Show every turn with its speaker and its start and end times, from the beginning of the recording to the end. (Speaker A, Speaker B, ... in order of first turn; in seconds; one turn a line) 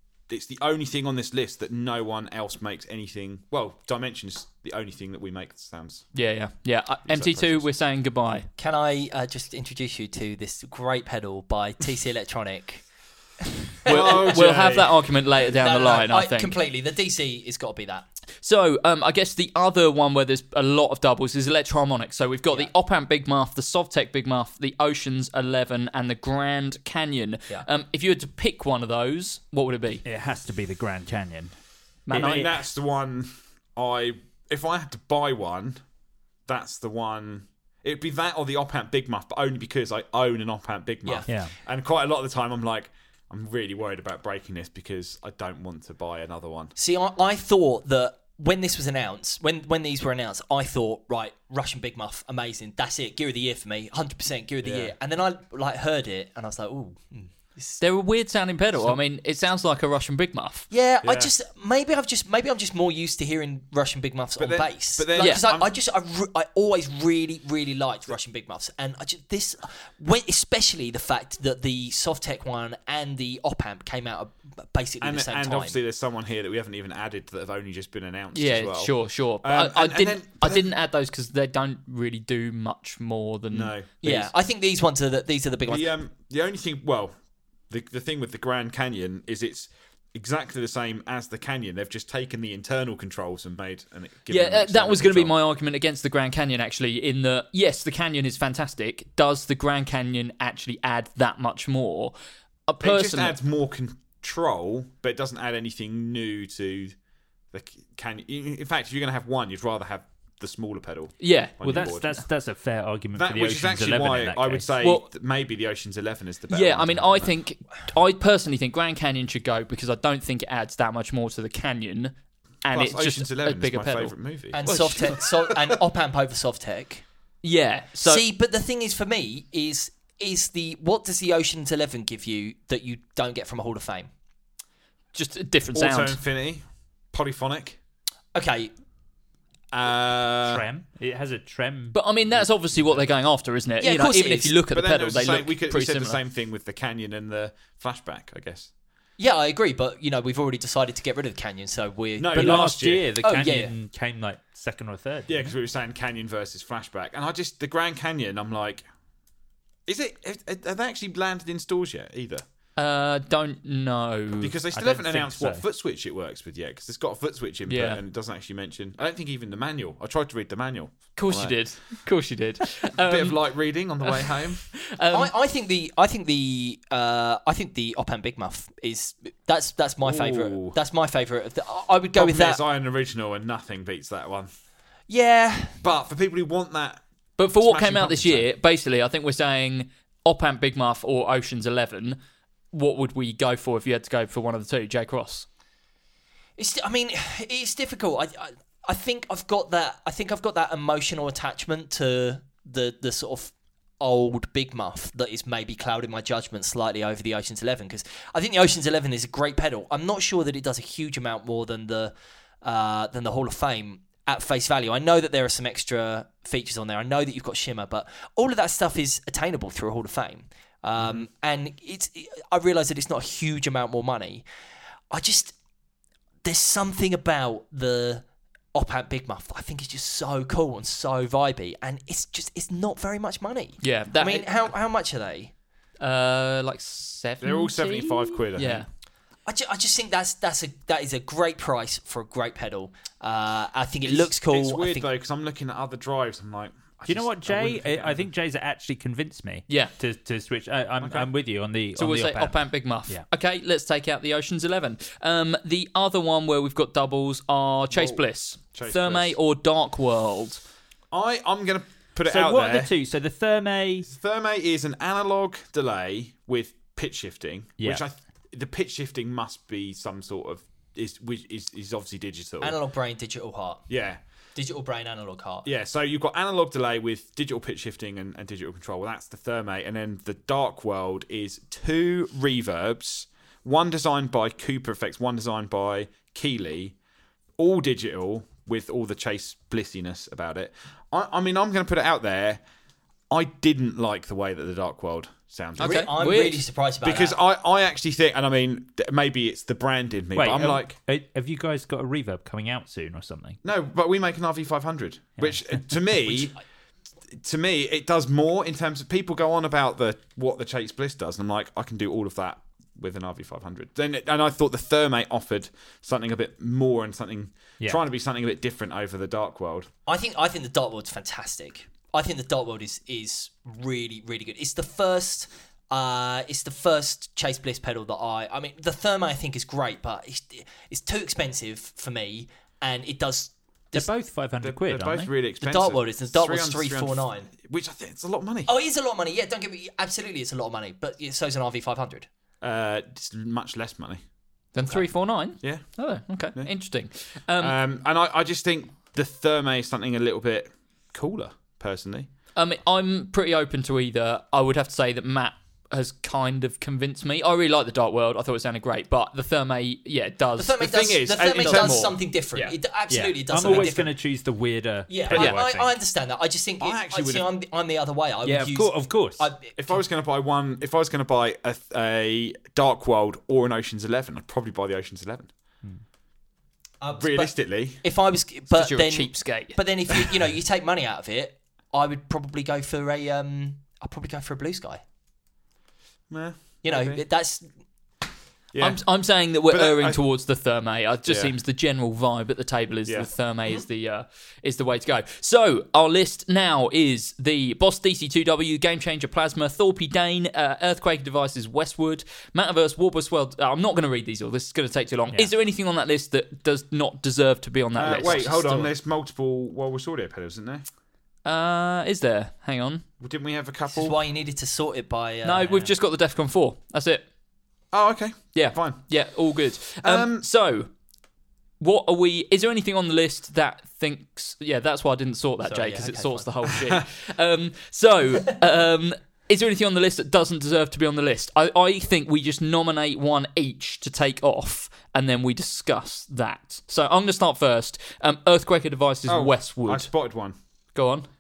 Speaker A: 0.3-6.1
Speaker B: 6.1-8.5
Speaker A: 7.1-7.7
Speaker C: 8.6-12.8
Speaker C: 13.8-14.4
Speaker A: 13.9-15.0
Speaker B: 13.9-16.6
Speaker C: 15.6-18.1
Speaker B: 18.4-30.0
Speaker D: 30.1-31.6
Speaker B: 32.1-32.5
Speaker D: 32.1-32.5
Speaker A: 32.1-35.8
Speaker A: 36.5-46.8
Speaker D: 41.3-41.5
Speaker C: 46.8-57.8
Speaker A: 54.6-54.9
Speaker B: 57.8-60.7
Speaker C: 60.7-75.8
Speaker A: 61.0-61.3
Speaker A: 64.4-65.7
Speaker B: 65.2-65.4
Speaker A: 75.0-80.7
Speaker B: 78.3-84.3
Speaker A: 83.5-84.2
Speaker C: 84.0-85.9
Speaker A: 85.7-87.1
Speaker A: 87.7-95.3
Speaker B: 94.3-102.2
Speaker B: 102.7-103.4
Speaker A: 102.8-107.0
Speaker A: 107.5-112.1
Speaker B: 111.2-112.0
Speaker D: 111.6-114.7
Speaker A: 113.2-117.3
Speaker B: 114.8-115.1
Speaker B: 116.5-122.1
Speaker B: 122.7-125.2
Speaker A: 122.7-125.6
Speaker C: 124.5-127.0
Speaker B: 127.4-128.2
Speaker C: 128.0-134.1
Speaker B: 135.1-136.2
Speaker A: 135.7-137.8
Speaker C: 138.3-138.7
Speaker A: 139.7-140.7
Speaker D: 140.4-142.0
Speaker B: 141.9-146.2
Speaker C: 143.8-144.6
Speaker A: 144.7-148.7
Speaker C: 149.2-153.7
Speaker A: 152.2-153.1
Speaker D: 152.3-155.6
Speaker A: 155.3-158.8
Speaker A: 159.9-162.4
Speaker B: 162.8-164.6
Speaker A: 164.4-171.7
Speaker D: 164.7-165.6
Speaker B: 167.7-168.0
Speaker B: 171.2-173.5
Speaker A: 173.0-174.7
Speaker B: 174.0-175.3
Speaker C: 175.1-182.6
Speaker A: 180.0-180.8
Speaker A: 182.2-184.5
Speaker C: 185.1-185.8
Speaker A: 185.8-187.0
Speaker B: 187.4-192.2
Speaker A: 187.6-188.5
Speaker B: 192.7-195.5
Speaker C: 196.6-224.4
Speaker A: 221.0-221.2
Speaker C: 225.1-225.6
Speaker C: 226.4-235.5
Speaker B: 233.8-234.5
Speaker B: 236.0-238.9
Speaker A: 237.4-238.9
Speaker C: 239.5-245.1
Speaker A: 244.0-248.3
Speaker D: 247.1-253.3
Speaker A: 251.0-251.3
Speaker B: 251.9-260.6
Speaker A: 258.7-259.4
Speaker A: 261.1-262.9
Speaker D: 262.2-264.1
Speaker A: 264.1-272.8
Speaker C: 272.6-273.9
Speaker A: 273.9-274.2
Speaker C: 274.6-275.7
Speaker A: 275.6-286.9
Speaker A: 287.6-292.6
Speaker A: 293.3-296.1
Speaker B: 295.8-296.6
Speaker C: 295.8-297.4
Speaker A: 297.0-301.0
Speaker D: 300.3-303.6
Speaker A: 303.6-306.5
Speaker D: 305.4-305.8
Speaker A: 307.4-319.9
Speaker C: 320.1-334.1
Speaker D: 333.9-335.3
Speaker A: 334.6-338.7
Speaker C: 335.6-337.5
Speaker C: 338.7-342.3
Speaker A: 342.6-344.2
Speaker B: 344.7-347.8
Speaker A: 345.6-345.9
Speaker A: 347.6-352.3
Speaker B: 352.6-360.8
Speaker C: 360.6-364.1
Speaker A: 360.8-362.1
Speaker B: 361.6-362.7
Speaker D: 363.1-365.9
Speaker C: 365.1-370.0
Speaker B: 365.3-365.6
Speaker A: 366.8-367.5
Speaker D: 368.4-369.5
Speaker A: 369.8-375.5
Speaker C: 377.0-385.0
Speaker A: 377.1-378.0
Speaker B: 378.7-379.8
Speaker A: 386.3-387.2
Speaker C: 386.8-387.7
Speaker A: 388.7-389.0
Speaker B: 388.8-408.5
Speaker A: 389.7-390.2
Speaker A: 391.3-391.5
Speaker A: 408.0-410.9
Speaker C: 408.0-408.9
Speaker B: 411.4-413.1
Speaker A: 413.2-414.2
Speaker C: 413.9-415.9
Speaker B: 415.4-417.2
Speaker A: 417.9-419.1
Speaker B: 418.5-420.9
Speaker A: 420.0-420.4
Speaker B: 421.8-440.1
Speaker C: 425.6-426.7
Speaker A: 439.3-440.6
Speaker B: 440.9-441.3